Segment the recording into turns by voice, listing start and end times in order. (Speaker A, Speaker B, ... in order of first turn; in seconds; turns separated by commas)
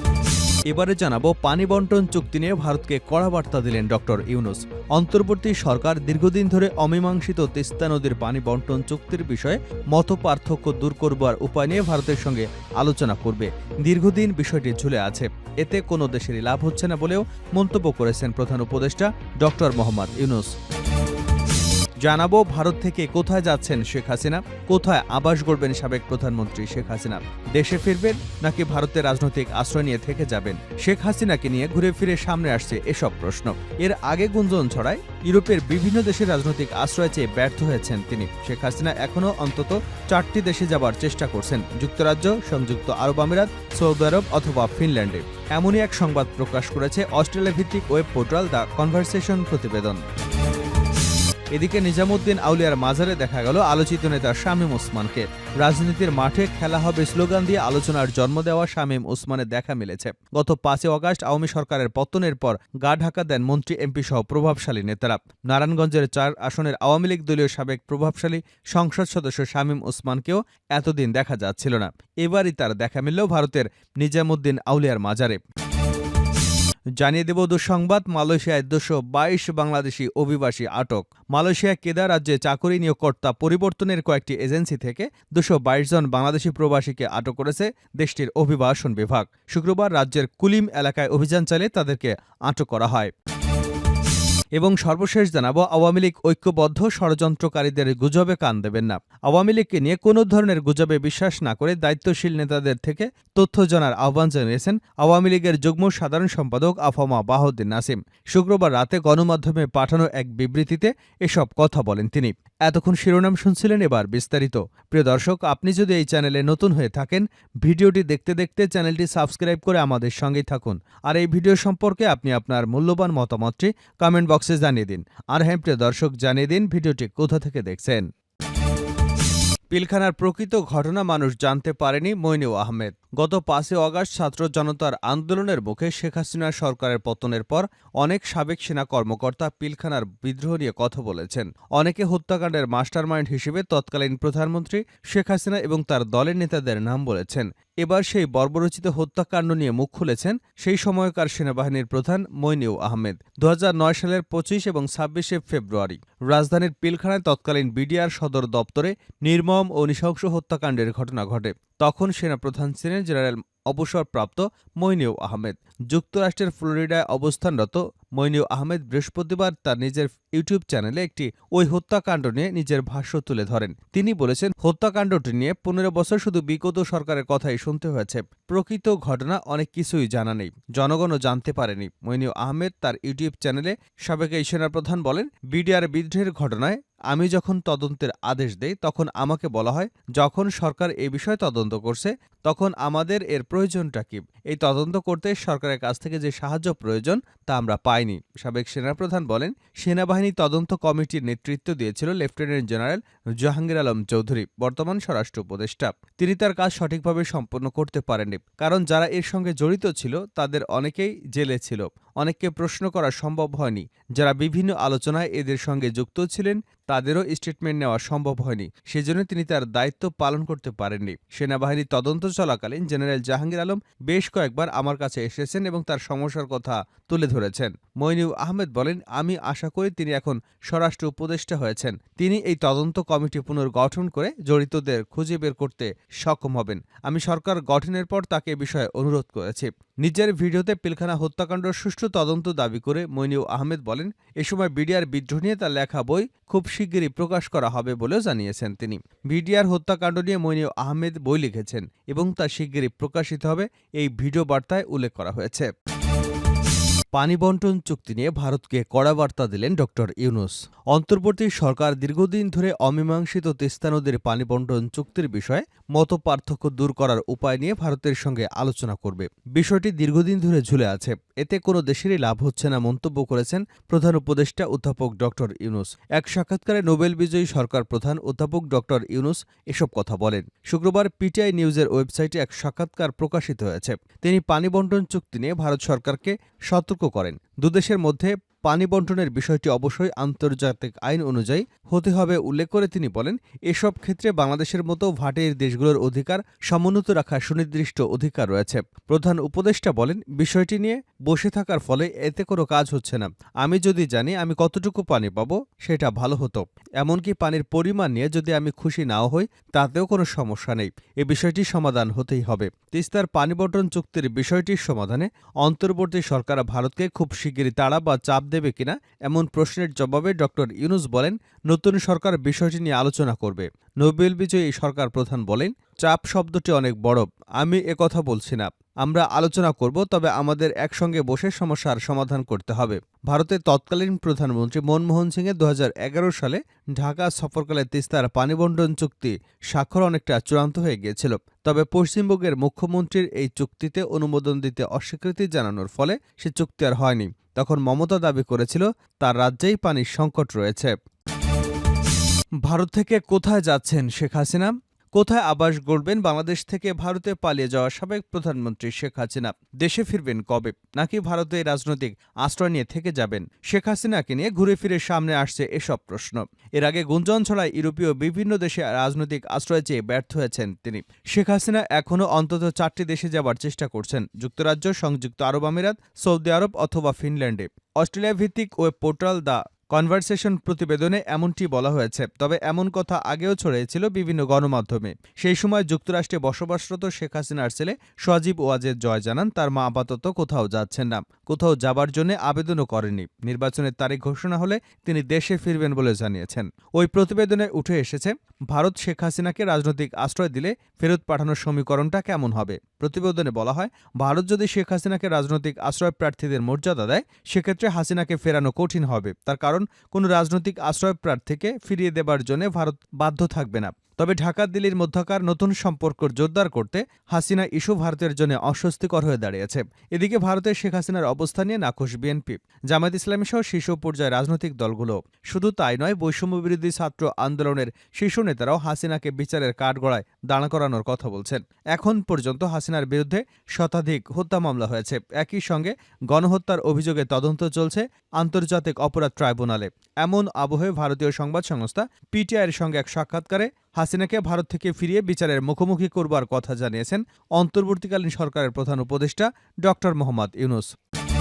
Speaker A: 0.7-20.5, Speaker A: 22.0-50.0, Speaker A: 51.5-75.4, Speaker A: 77.0-93.1, Speaker A: 94.6-128.1, Speaker A: 129.7-255.7, Speaker A: 257.1-350.9, Speaker A: 352.6-450.9